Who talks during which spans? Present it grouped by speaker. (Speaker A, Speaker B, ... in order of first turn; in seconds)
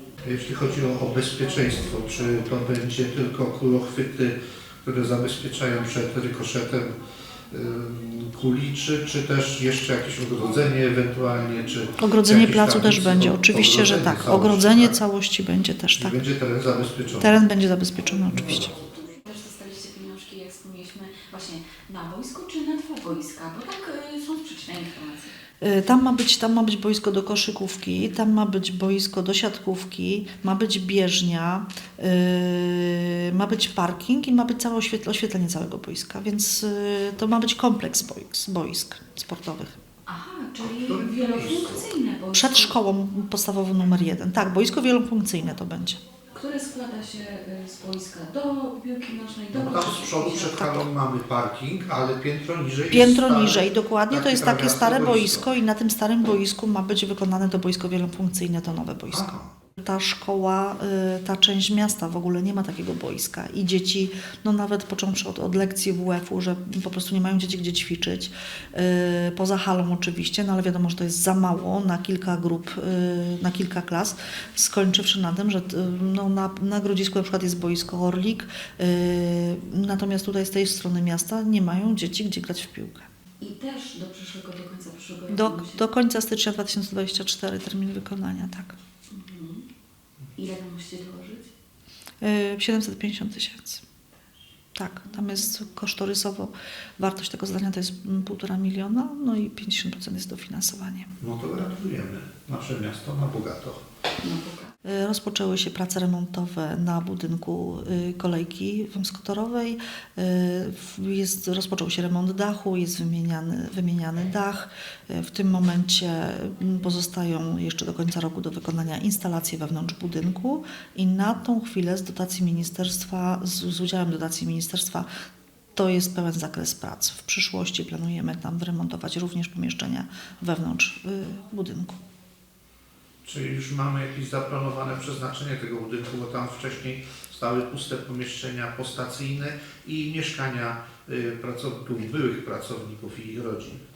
Speaker A: 0.2-6.9, 7.5-15.0, 15.9-17.4, 40.6-42.0, 49.5-55.5, 59.1-59.5, 101.2-103.8, 133.2-143.8
Speaker B: 12.0-16.2, 17.2-18.7, 25.6-39.8, 42.3-46.0, 52.9-83.1, 85.3-88.8, 92.2-93.8, 94.8-101.2, 104.8-125.1, 125.8-132.0
Speaker C: 18.8-25.3, 40.1-42.7, 46.3-50.8, 83.4-85.8, 89.1-89.7, 90.4-91.5, 104.2-104.7